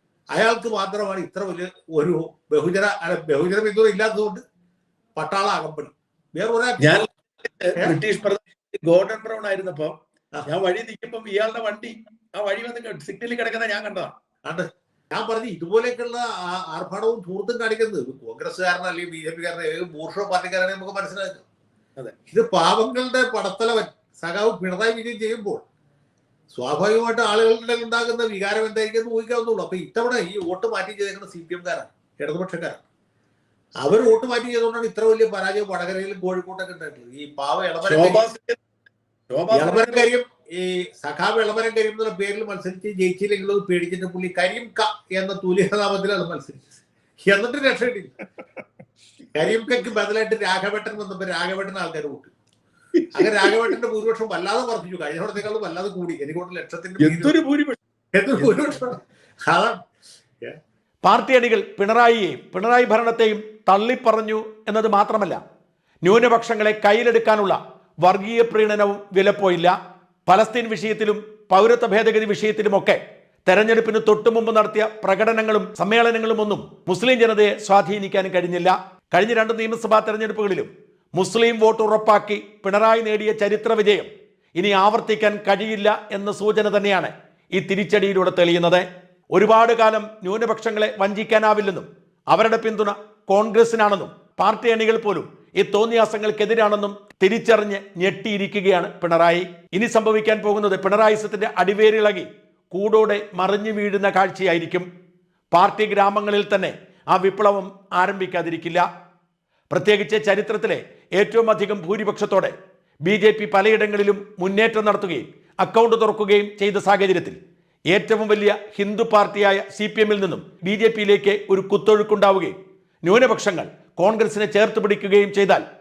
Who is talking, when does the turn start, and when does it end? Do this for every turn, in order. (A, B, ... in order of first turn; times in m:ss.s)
0:00.3-0:04.4 A
0:05.2-0:07.0 A
0:07.6-0:10.0 B
0:10.5-0:14.1 B
0:14.4-0:21.4 A
0:22.3-0:25.6 A
0:26.5-0:32.8 A
0:33.8-0:38.2 A
0:37.8-0:38.6 B
0:39.3-0:40.1 B
0:39.5-0:46.6 A
0:47.2-0:48.1 A
0:49.3-0:52.3 A
0:53.1-0:57.4 A
0:53.2-0:53.7 B
0:57.0-0:57.8 B
0:58.1-0:59.8 A
1:01.0-1:05.4 C
1:06.0-1:09.7 C
1:10.3-1:44.9 C
1:45.5-1:48.8 C
1:49.7-1:52.5 C
1:53.0-1:57.4 C
1:57.9-2:05.6 C